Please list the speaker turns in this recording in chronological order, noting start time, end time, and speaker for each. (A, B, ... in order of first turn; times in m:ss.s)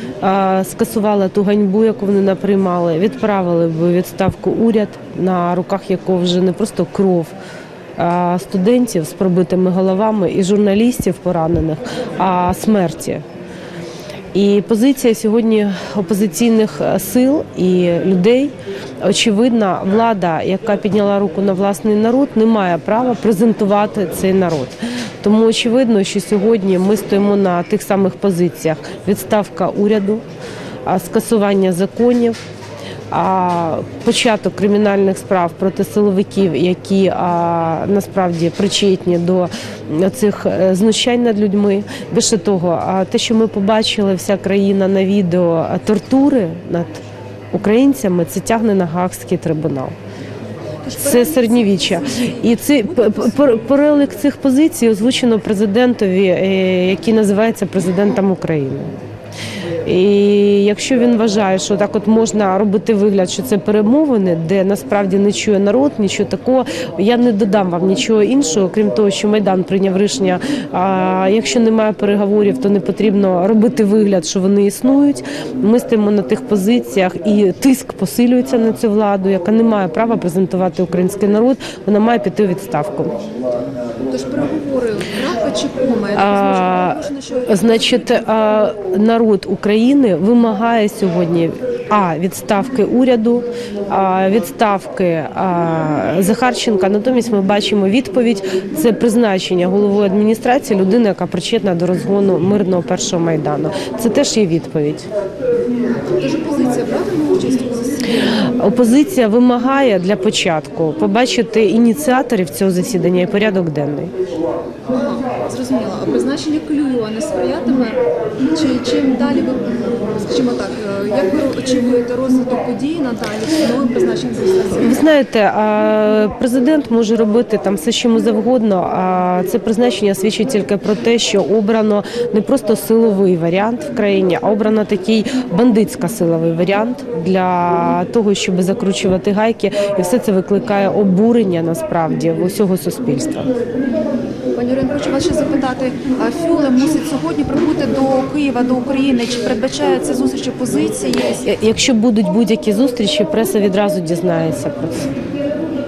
0:00.2-0:07.3 A
0:08.0-0:13.2 A
0:14.3-0:30.2 A
0:30.8-0:32.4 A
0:33.1-0:49.9 A
0:50.8-0:53.6 B
0:51.0-0:58.9 A
0:59.8-1:23.1 A
1:24.1-1:28.4 B
1:26.2-1:45.1 A
1:46.1-1:48.4 B
1:48.3-1:54.1 A
1:54.9-2:05.1 B
2:04.7-2:23.5 A
2:23.8-2:31.5 B
2:31.4-2:35.1 A